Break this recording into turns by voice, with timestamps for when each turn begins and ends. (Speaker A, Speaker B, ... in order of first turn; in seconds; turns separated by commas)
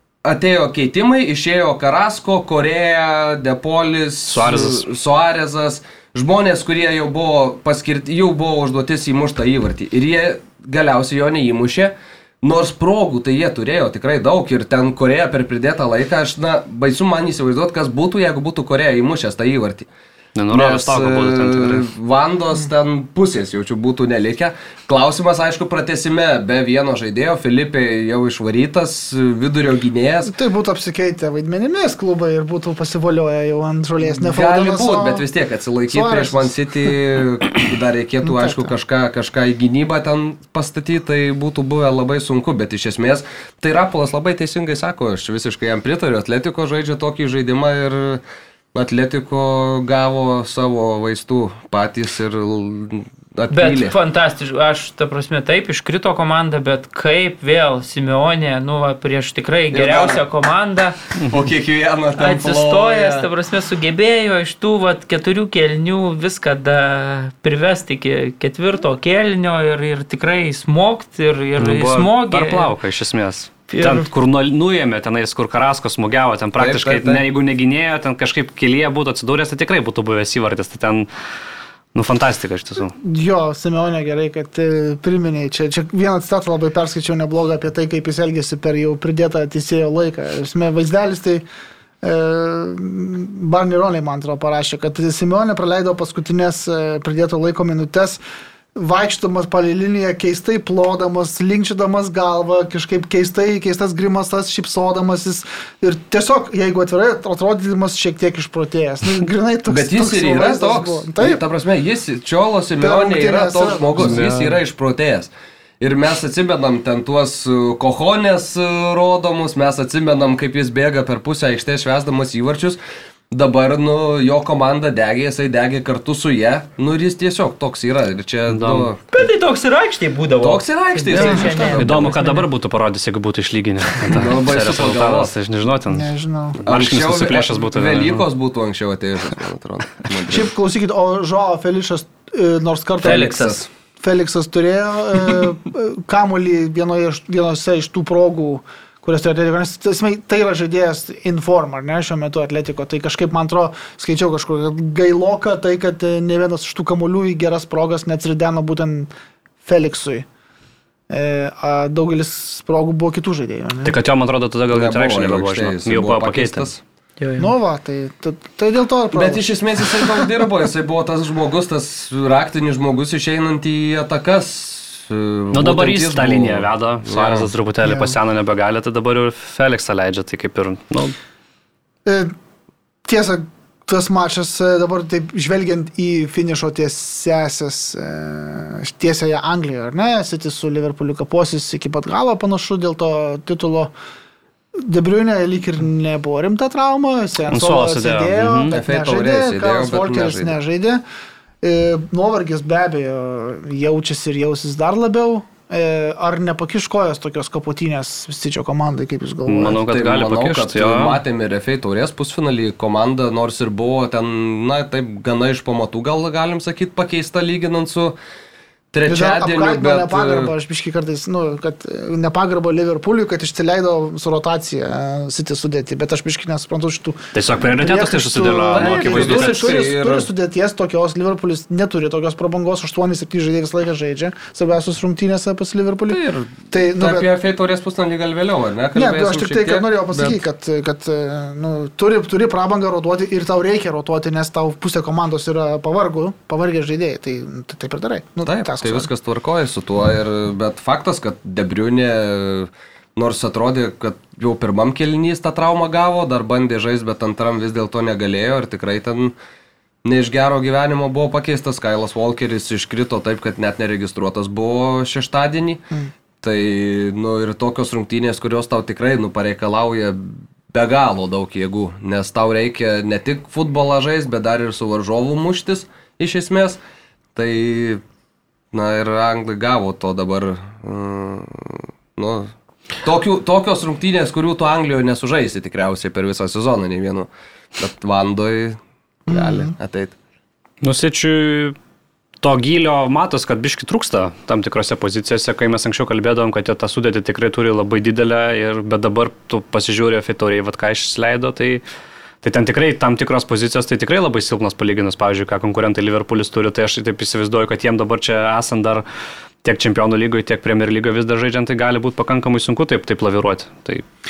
Speaker A: 0.2-19.9, Speaker B: 4.3-4.9, Speaker B: 20.4-21.8, Speaker A: 20.5-30.3, Speaker C: 30.2-35.2, Speaker A: 34.0-48.2, Speaker C: 35.9-36.5, Speaker C: 38.2-38.7, Speaker A: 48.7-53.9, Speaker D: 53.5-61.0, Speaker A: 59.7-60.2, Speaker A: 61.3-63.3, Speaker D: 62.1-72.7, Speaker B: 71.6-81.1, Speaker D: 73.7-74.1, Speaker A: 76.6-77.2, Speaker B: 81.9-82.9, Speaker C: 83.0-91.4, Speaker C: 92.0-98.2, Speaker C: 98.7-111.4, Speaker A: 109.7-122.8, Speaker C: 112.8-114.2, Speaker B: 114.0-114.6, Speaker A: 123.3-129.0, Speaker B: 128.5-128.9, Speaker D: 129.1-132.5, Speaker A: 130.4-132.1, Speaker C: 131.1-131.8, Speaker B: 131.2-138.2, Speaker A: 134.1-135.3, Speaker C: 135.9-136.6, Speaker A: 136.7-140.5, Speaker C: 140.3-159.1, Speaker A: 143.0-143.6, Speaker C: 159.6-160.2, Speaker C: 161.1-164.0, Speaker B: 163.8-166.8, Speaker A: 164.7-166.8, Speaker D: 167.2-167.5, Speaker C: 167.4-170.2, Speaker A: 169.1-177.5, Speaker B: 175.5-181.1, Speaker C: 177.8-178.2, Speaker C: 182.0-182.3, Speaker C: 183.0-193.9, Speaker C: 194.7-201.0, Speaker B: 197.5-198.7, Speaker A: 198.7-200.5, Speaker C: 201.6-209.8, Speaker B: 209.4-211.2, Speaker A: 209.8-218.2, Speaker A: 218.9-220.5, Speaker C: 219.1-237.3, Speaker B: 227.3-229.6, Speaker A: 228.7-230.3, Speaker A: 236.1-240.4, Speaker C: 238.9-249.1, Speaker A: 248.4-259.3, Speaker A: 260.0-265.8, Speaker A: 266.4-276.8, Speaker A: 277.3-278.0, Speaker A: 278.7-290.1, Speaker C: 289.3-289.7, Speaker B: 290.8-291.7, Speaker B: 292.4-301.8, Speaker B: 302.4-309.0, Speaker B: 309.6-314.0